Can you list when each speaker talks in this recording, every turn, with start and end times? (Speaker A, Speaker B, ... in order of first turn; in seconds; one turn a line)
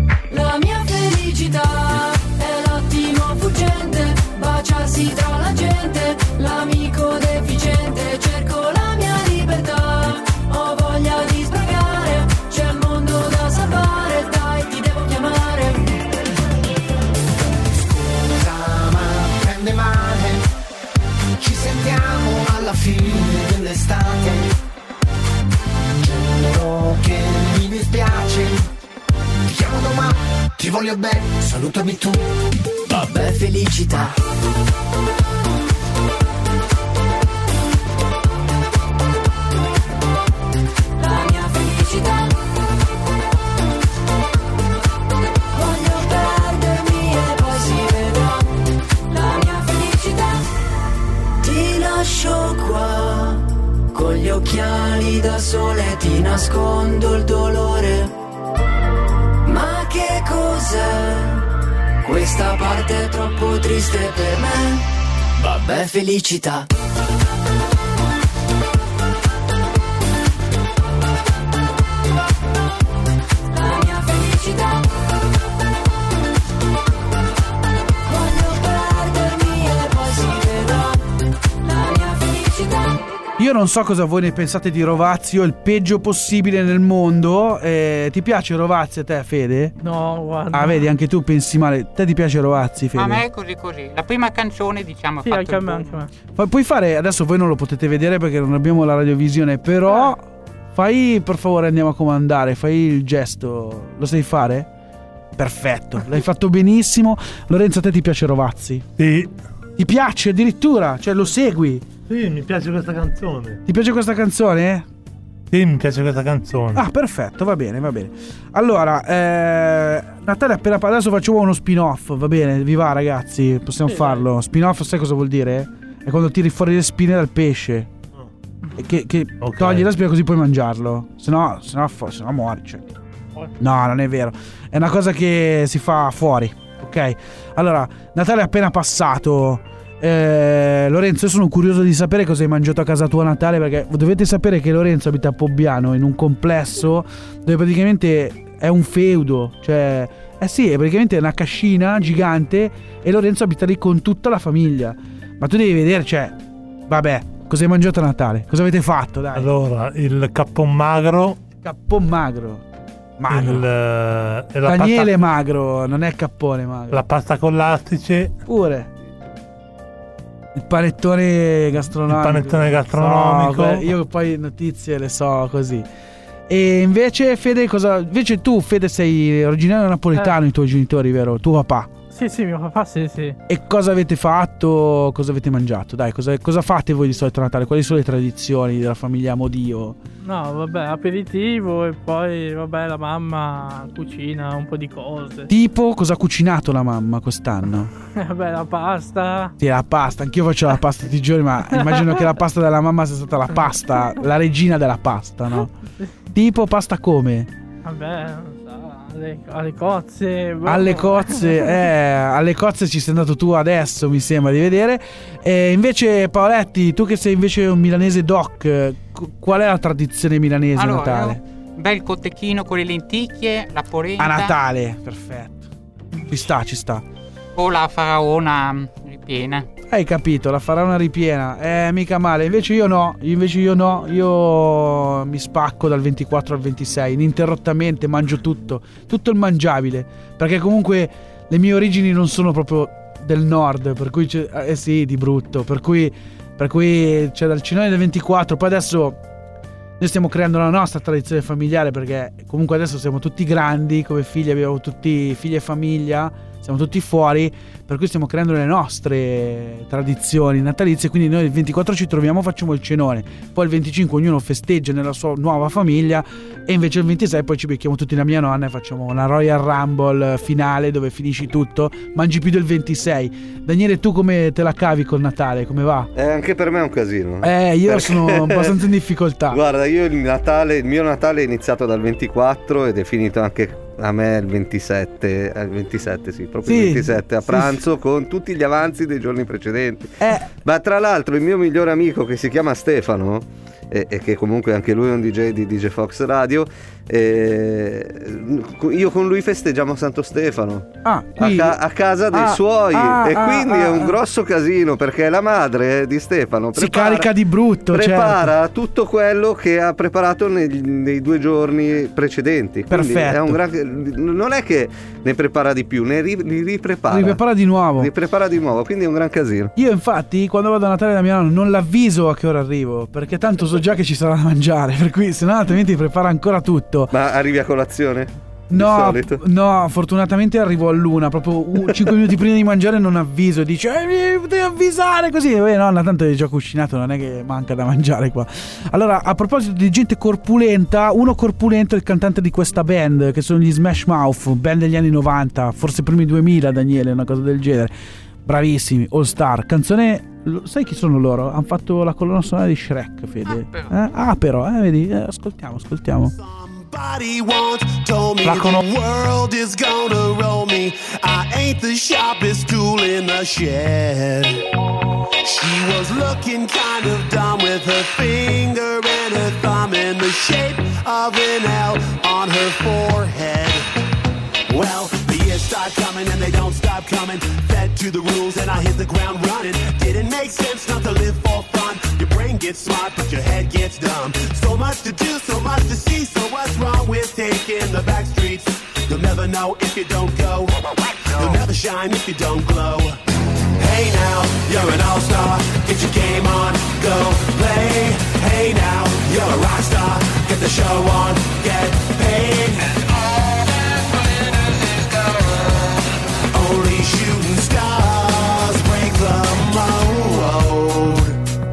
Speaker A: 0.3-15.9
Speaker B: 17.6-20.4
Speaker B: 21.4-24.5
Speaker B: 26.1-28.7
Speaker B: 29.5-32.2
Speaker A: 32.9-34.1
Speaker A: 41.0-42.4
Speaker A: 45.5-48.5
Speaker A: 49.1-50.5
Speaker A: 51.4-58.1
Speaker A: 59.4-61.5
Speaker A: 62.0-64.8
Speaker A: 65.4-66.7
Speaker A: 73.5-74.9
Speaker A: 78.1-81.0
Speaker A: 81.6-83.1
Speaker C: 83.4-89.8
Speaker D: 89.8-90.9
Speaker C: 90.5-93.2
Speaker E: 93.0-96.0
Speaker D: 95.2-96.1
Speaker C: 96.3-104.7
Speaker D: 99.9-100.1
Speaker C: 105.4-108.9
Speaker F: 109.0-109.4
Speaker C: 109.8-111.9
Speaker F: 112.1-113.6
Speaker C: 113.7-114.9
Speaker F: 115.5-116.8
Speaker C: 116.8-127.9
Speaker D: 123.8-124.2
Speaker C: 128.8-132.9
Speaker F: 129.4-129.9
Speaker C: 133.6-159.5
Speaker F: 159.3-161.4
Speaker C: 161.6-162.6
Speaker C: 163.2-163.7
Speaker F: 163.3-165.1
Speaker C: 164.7-167.0
Speaker F: 166.9-168.4
Speaker C: 168.5-168.9
Speaker C: 170.6-175.9
Speaker F: 172.1-173.9
Speaker C: 176.5-181.9
Speaker D: 182.1-183.4
Speaker C: 183.5-190.0
Speaker D: 190.2-195.5
Speaker C: 195.5-197.9
Speaker D: 198.2-199.5
Speaker C: 199.6-205.7
Speaker D: 201.8-202.1
Speaker C: 206.3-207.5
Speaker D: 207.8-211.6
Speaker C: 210.7-221.4
Speaker E: 220.8-224.6
Speaker C: 224.2-225.7
Speaker C: 226.3-227.1
Speaker E: 227.6-229.7
Speaker C: 229.9-249.2
Speaker C: 250.0-276.1
Speaker G: 276.1-278.7
Speaker C: 277.4-279.6
Speaker G: 279.5-290.1
Speaker C: 286.6-287.8
Speaker C: 290.2-290.5
Speaker G: 290.6-307.3
Speaker C: 301.0-301.8
Speaker C: 302.3-304.2
Speaker C: 306.8-308.5
Speaker G: 307.9-317.4
Speaker C: 312.9-313.6
Speaker C: 317.1-318.1
Speaker G: 318.0-319.7
Speaker C: 319.8-327.1
Speaker G: 327.1-329.4
Speaker C: 328.7-347.9
Speaker C: 348.4-356.3
Speaker H: 356.4-364.6
Speaker F: 358.4-358.8
Speaker H: 365.5-373.9
Speaker H: 374.7-390.7
Speaker H: 391.3-393.2
Speaker H: 393.8-403.0
Speaker H: 406.5-411.4